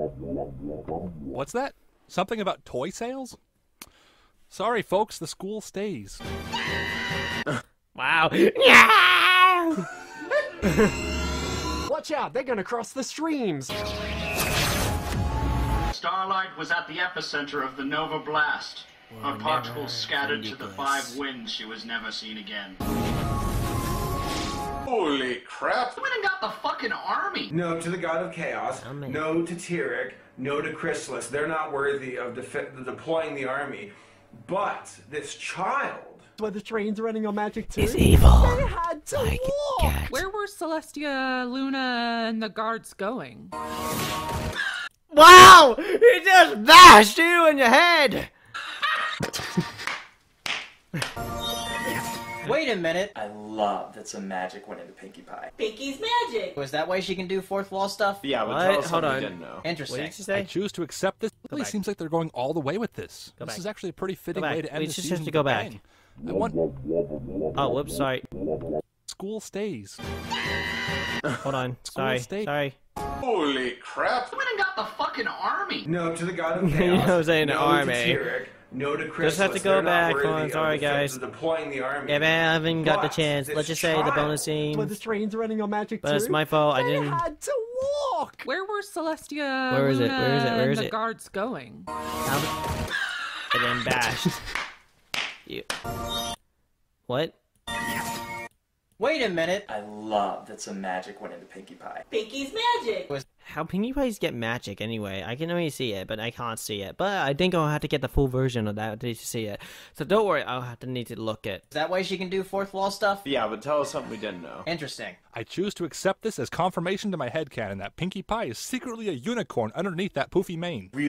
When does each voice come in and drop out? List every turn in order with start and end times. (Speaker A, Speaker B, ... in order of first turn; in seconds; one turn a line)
Speaker A: 1.3-3.4
Speaker A: 4.5-6.2
Speaker B: 8.0-9.9
Speaker B: 10.6-11.0
Speaker C: 11.9-13.8
Speaker D: 15.9-22.8
Speaker B: 19.1-21.2
Speaker E: 24.9-25.9
Speaker D: 26.0-27.5
Speaker F: 27.5-36.3
Speaker B: 28.8-29.3
Speaker C: 36.4-40.0
Speaker B: 37.8-38.6
Speaker B: 39.1-40.1
Speaker G: 40.1-43.5
Speaker B: 45.1-48.3
Speaker H: 52.4-53.1
Speaker I: 53.1-55.5
Speaker J: 55.6-56.6
Speaker H: 56.6-58.3
Speaker K: 58.2-59.6
Speaker B: 58.4-59.3
Speaker H: 59.6-60.2
Speaker B: 59.9-60.5
Speaker A: 60.3-66.6
Speaker B: 64.3-65.8
Speaker B: 67.6-68.3
Speaker A: 69.1-70.0
Speaker B: 71.4-72.8
Speaker A: 71.9-72.5
Speaker E: 73.2-74.3
Speaker D: 74.3-75.9
Speaker F: 75.9-84.4
Speaker B: 76.6-78.2
Speaker B: 79.2-81.2
Speaker B: 82.1-85.0
Speaker C: 84.7-88.5
Speaker B: 86.0-87.2
Speaker G: 88.4-91.9
Speaker B: 89.7-91.0
Speaker B: 92.2-92.6
Speaker B: 93.5-94.4
Speaker B: 97.1-97.4
Speaker H: 99.0-99.6
Speaker I: 99.7-102.0
Speaker J: 102.1-103.1
Speaker B: 103.4-111.7
Speaker H: 111.7-113.2
Speaker K: 113.2-114.7
Speaker H: 114.7-115.2
Speaker A: 115.3-120.9